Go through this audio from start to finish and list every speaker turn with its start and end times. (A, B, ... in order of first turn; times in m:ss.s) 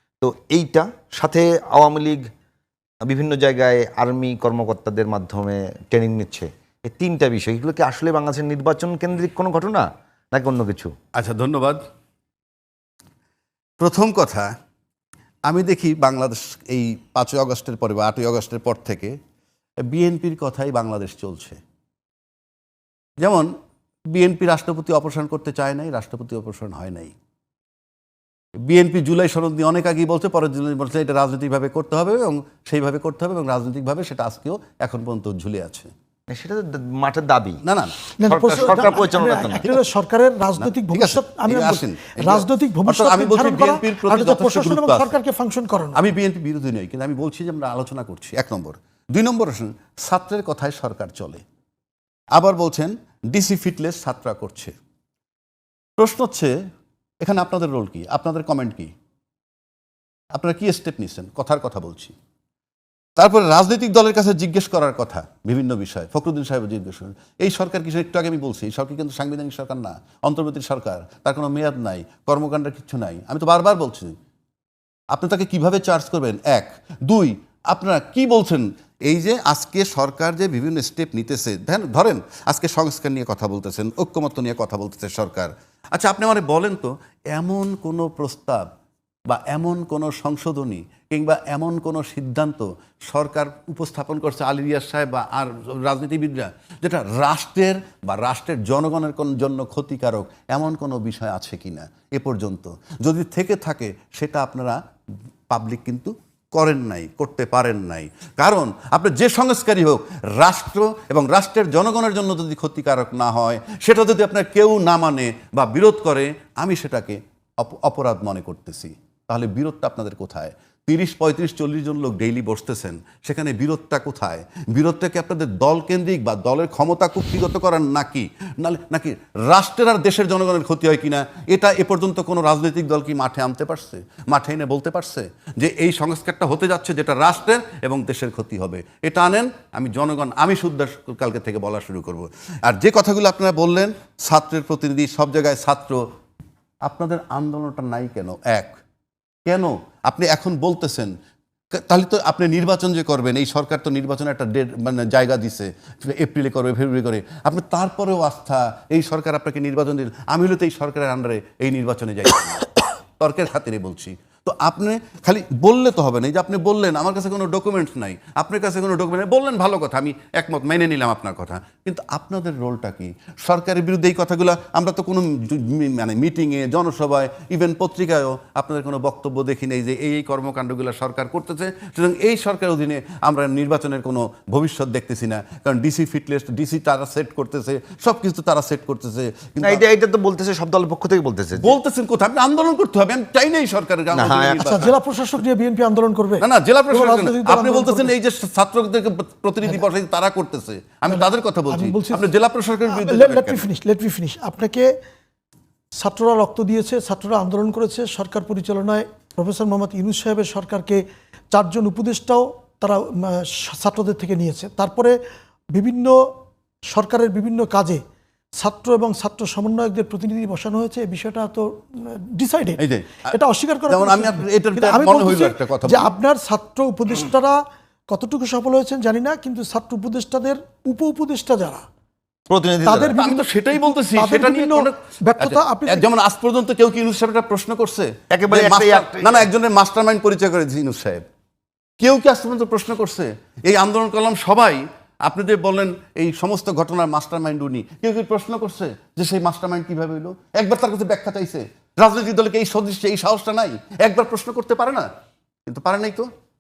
0:00.2-0:02.2 A
0:03.1-0:10.9 A
0:11.2-0:11.8 B
0:13.8-0:14.5 B
0:15.5-0:19.1 B
0:19.8-0:21.6 B
0:23.2-0:23.5 B
0:24.1-0:27.1 B
0:28.6-0:35.9 B
0:36.3-0:37.6 A
0:37.6-0:39.9 B
0:38.2-0:46.0 C
0:38.3-0:39.6 A
0:40.6-0:45.1 B
0:45.9-0:51.4 B
0:52.4-0:54.7 B
0:56.0-0:56.5 B
0:57.2-0:58.9 B
1:00.3-1:02.1 B
1:03.2-1:14.2 B
1:15.1-1:28.6 B
1:29.3-1:44.8 B
1:45.5-2:26.0 B
2:26.9-2:28.8 B
2:29.5-2:31.1 B
2:31.7-3:09.8 B
3:09.6-3:11.7 A
3:11.6-3:14.9 B
3:14.1-3:14.7 A
3:14.6-3:18.1 C
3:16.4-3:23.7 B
3:21.1-3:22.3 C
3:22.9-3:24.9 C
3:26.0-3:31.0 C
3:31.5-3:35.2 C
3:35.7-3:36.1 C
3:36.9-3:38.0 C
3:38.6-3:47.6 C
3:42.8-3:43.4 B
3:43.9-3:46.1 B
3:48.1-3:51.8 C
3:52.5-3:53.2 A
3:52.8-3:56.1 C
3:53.1-4:01.2 B
3:58.3-3:59.4 A
4:02.0-4:15.1 B
4:15.7-4:16.3 B